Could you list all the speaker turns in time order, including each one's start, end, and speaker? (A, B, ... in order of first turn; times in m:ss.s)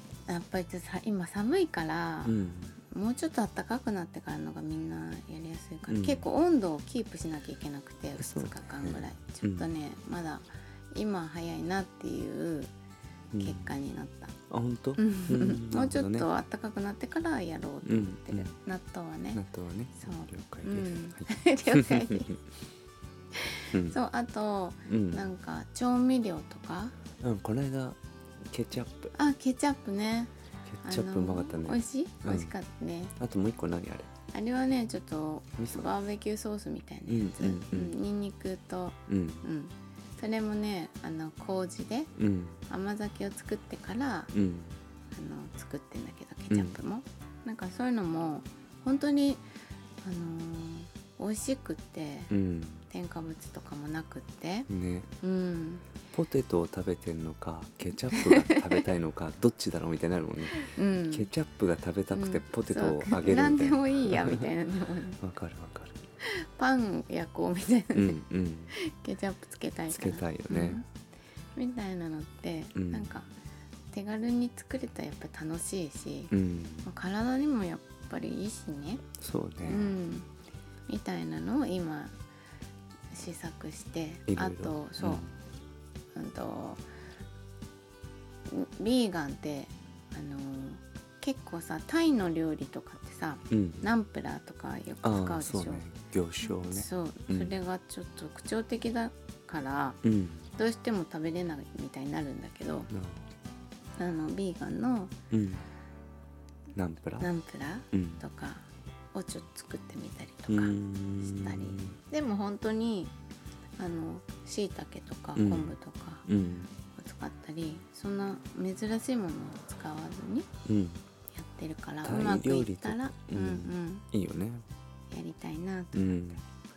0:00.3-0:12.7 A
0:02.3-0:02.8 B
0:05.9-0:06.2 B
0:08.2-0:09.7 B
0:13.3-0:13.7 B
0:13.4-0:14.4 A
0:14.5-0:16.3 B
0:15.0-0:19.4 A
0:17.8-0:18.5 B
0:19.4-0:22.3 B
0:20.0-0:22.3 A
0:23.4-0:27.0 A
0:23.7-0:24.0 B
0:24.9-0:25.3 B
0:27.2-0:29.1 B
0:29.2-0:30.3 A
0:30.7-0:32.5 B
0:30.8-0:33.1 A
0:33.2-0:34.1 B
0:34.3-0:42.1 A
0:35.6-0:35.9 B
0:37.1-0:38.0 B
0:39.1-0:39.5 B
0:42.2-0:42.6 B
0:42.7-0:44.3 A
0:44.3-0:44.8 B
0:45.1-0:49.4 A
0:46.5-0:46.8 B
0:50.0-0:52.3 A
0:52.3-0:52.9 B
0:52.9-0:54.7 A
0:54.7-0:55.1 B
0:55.2-0:55.8 A
0:56.1-1:04.4 B
0:58.1-0:58.8 A
1:00.6-1:01.3 A
1:02.1-1:05.2 A
1:05.2-1:06.0 B
1:06.2-1:08.2 A
1:07.9-1:08.7 B
1:08.7-1:10.9 A
1:09.9-1:10.8 B
1:11.6-1:13.3 A
1:12.8-1:13.1 B
1:13.9-1:16.3 A
1:16.3-1:16.9 B
1:16.8-1:19.1 A
1:19.2-1:20.0 B
1:19.6-1:20.3 A
1:20.9-1:22.1 A
1:23.1-1:25.2 A
1:24.3-1:25.3 B
1:26.1-1:26.8 A
1:28.5-1:35.9 A
1:33.5-1:33.9 B
1:35.0-1:37.5 B
1:36.7-1:40.0 A
1:40.0-1:40.4 B
1:40.6-1:42.9 A
1:42.9-1:43.3 B
1:44.0-1:45.1 A
1:45.3-1:45.7 B
1:46.8-1:47.3 B
1:47.2-1:53.1 A
1:47.9-1:48.2 B
1:50.5-1:52.0 B
1:53.8-1:56.3 A
1:55.4-1:56.7 B
1:57.0-2:00.5 A
2:00.7-2:01.0 B
2:01.4-2:04.1 A
2:02.0-2:04.6 B
2:05.1-2:06.2 A
2:05.9-2:06.4 B